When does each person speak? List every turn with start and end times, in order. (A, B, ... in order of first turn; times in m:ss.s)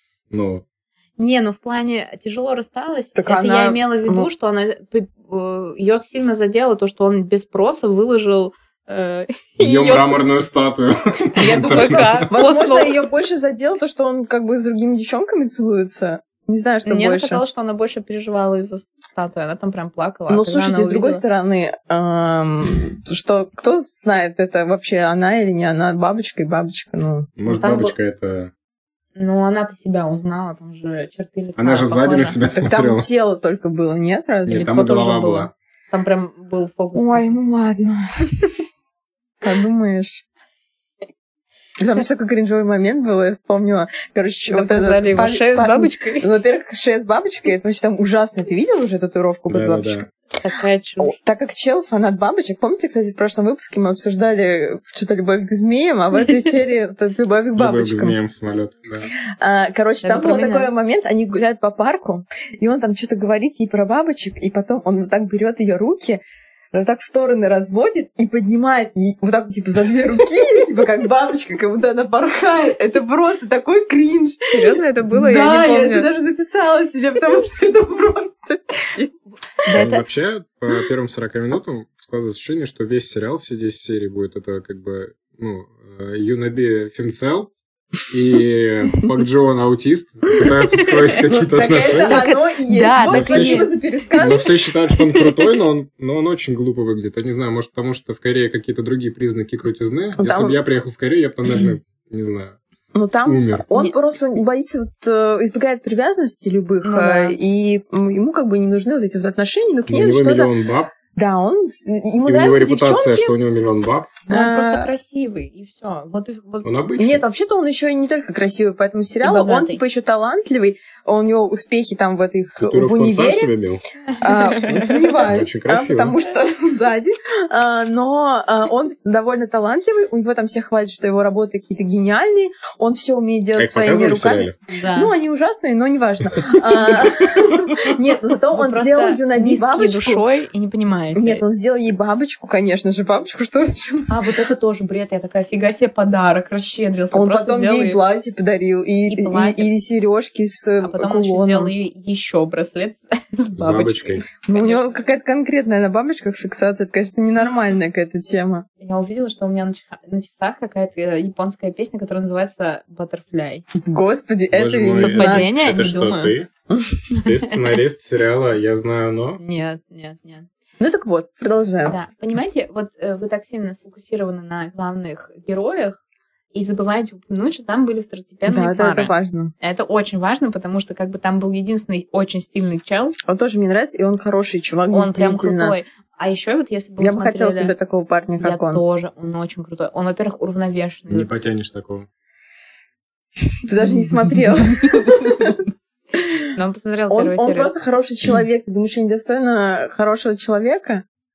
0:00.3-0:00.6 A
0:01.2-0:10.2 B
0:03.2-0:04.3 C
0:09.6-0:12.3 A
0:11.4-0:13.1 B
0:11.4-0:17.4 C
0:16.8-0:21.2 B
0:20.3-0:27.3 C
0:27.4-0:28.5 A
0:27.4-0:27.9 B
0:29.2-0:32.4 B
0:31.6-0:33.1 A
0:32.5-0:35.3 C
0:34.5-0:35.5 A
0:34.5-0:37.3 B
0:36.9-0:38.5 C
0:39.4-0:40.2 C
0:41.8-0:50.1 C
0:44.5-0:46.3 B
0:49.5-0:50.0 A
0:50.4-0:51.2 B
0:51.0-0:58.2 C
0:57.6-0:59.1 A
0:59.4-1:06.2 C
1:00.0-1:00.7 B
1:06.7-1:19.3 C
1:14.5-1:16.1 B
1:19.6-1:20.0 B
1:19.7-1:27.5 A
1:28.0-1:32.3 A
1:30.8-1:34.5 C
1:32.0-1:33.7 B
1:33.0-1:42.6 A
1:40.2-1:40.6 C
1:42.9-1:50.5 C
1:43.2-1:43.6 A
1:46.8-1:47.4 B
1:49.9-1:50.9 A
1:51.1-1:53.3 C
1:52.2-1:54.2 A
1:54.3-1:56.7 B
1:54.3-1:54.9 C
1:56.6-1:57.2 A
1:57.0-2:03.5 C
1:59.2-1:59.8 B
2:02.6-2:03.8 A
2:04.1-2:05.0 B
2:04.2-2:20.2 C
2:04.8-2:06.2 A
2:13.6-2:14.6 A
2:14.7-2:15.1 B
2:18.5-2:21.4 B
2:21.1-2:24.1 C
2:24.1-2:28.0 B
2:27.1-2:31.7 C
2:29.1-2:29.7 B
2:30.8-2:35.0 B
2:33.6-2:34.3 A
2:34.4-2:38.6 C
2:38.8-2:43.6 B
2:43.8-2:45.5 C
2:44.5-2:46.5 A
2:45.0-2:46.3 B
2:46.7-2:47.0 C
2:47.2-2:49.4 A
2:47.2-2:47.6 B
2:49.4-2:50.5 B
2:50.8-2:52.0 C
2:51.8-2:56.0 B
2:56.5-3:03.2 B
2:58.5-2:59.5 C
3:03.3-3:05.8 C
3:04.9-3:07.7 B
3:07.0-3:08.8 C
3:08.4-3:11.3 B
3:11.1-3:12.1 A
3:13.6-3:15.6 C
3:16.2-3:16.4 C
3:16.5-3:17.7 B
3:17.1-3:21.0 C